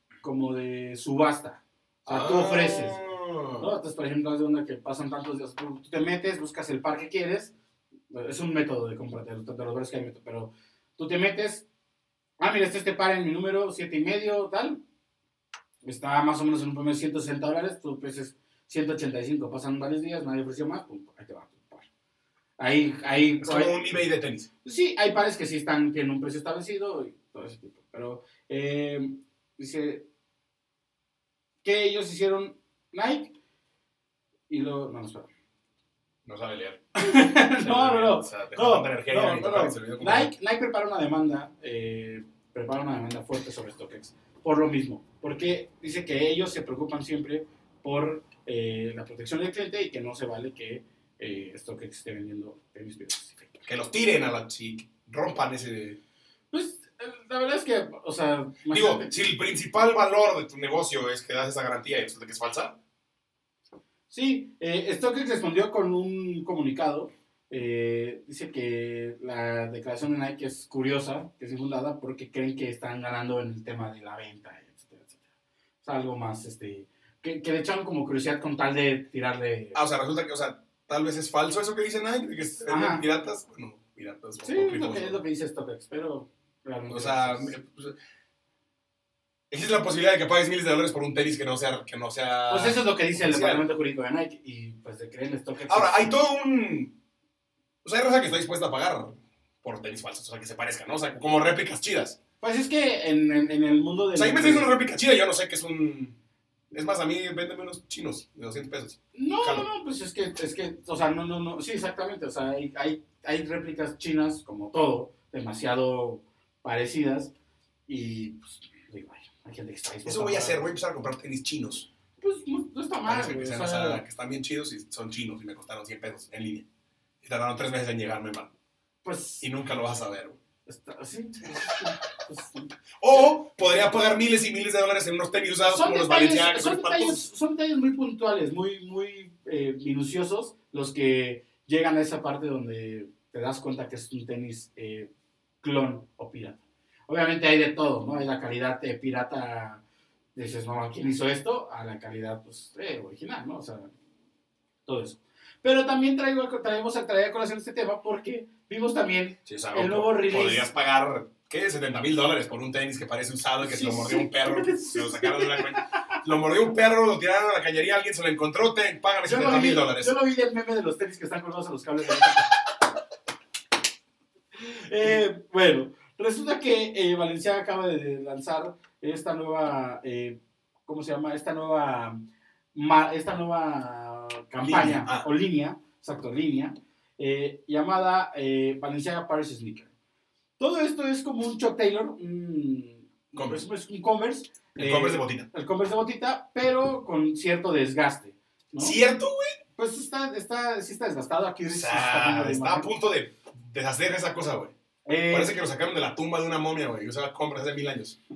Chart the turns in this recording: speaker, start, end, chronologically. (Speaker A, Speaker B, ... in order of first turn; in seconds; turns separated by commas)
Speaker A: 0.2-3.0, Speaker B: 2.1-3.7, Speaker A: 3.6-7.5, Speaker A: 8.1-11.7, Speaker A: 12.4-14.8, Speaker A: 15.8-21.9, Speaker A: 22.6-23.9, Speaker B: 23.4-24.5, Speaker A: 24.6-30.1, Speaker A: 31.6-33.3, Speaker A: 34.5-35.3, Speaker B: 36.2-40.3, Speaker A: 37.0-53.6, Speaker B: 53.6-56.0, Speaker A: 56.5-59.1, Speaker B: 58.7-62.8, Speaker A: 64.1-75.2, Speaker A: 75.8-79.8, Speaker B: 79.7-85.2, Speaker A: 82.7-83.0, Speaker A: 84.4-87.5, Speaker B: 86.9-88.0, Speaker B: 89.5-93.6, Speaker A: 92.5-96.1, Speaker B: 95.7-96.9, Speaker B: 97.8-102.2, Speaker A: 102.4-104.7, Speaker B: 104.1-106.2, Speaker B: 106.7-109.7, Speaker A: 109.1-117.3, Speaker A: 117.9-120.6, Speaker B: 120.0-121.9, Speaker A: 122.2-124.0, Speaker B: 123.0-126.7, Speaker B: 127.2-128.5, Speaker A: 129.0-129.4, Speaker B: 129.4-130.4, Speaker A: 130.7-132.7, Speaker B: 133.0-137.2, Speaker A: 135.6-145.1, Speaker A: 145.6-149.8, Speaker A: 150.3-153.9, Speaker A: 154.8-160.7, Speaker B: 159.4-170.2, Speaker A: 163.6-165.8, Speaker A: 169.2-172.6, Speaker A: 174.5-182.2, Speaker A: 182.7-189.9, Speaker B: 184.6-185.3, Speaker A: 190.6-199.0, Speaker B: 193.3-193.6, Speaker B: 194.8-195.5, Speaker B: 198.8-199.5, Speaker A: 199.8-202.9, Speaker B: 201.7-204.7, Speaker A: 205.0-205.5, Speaker B: 205.3-208.2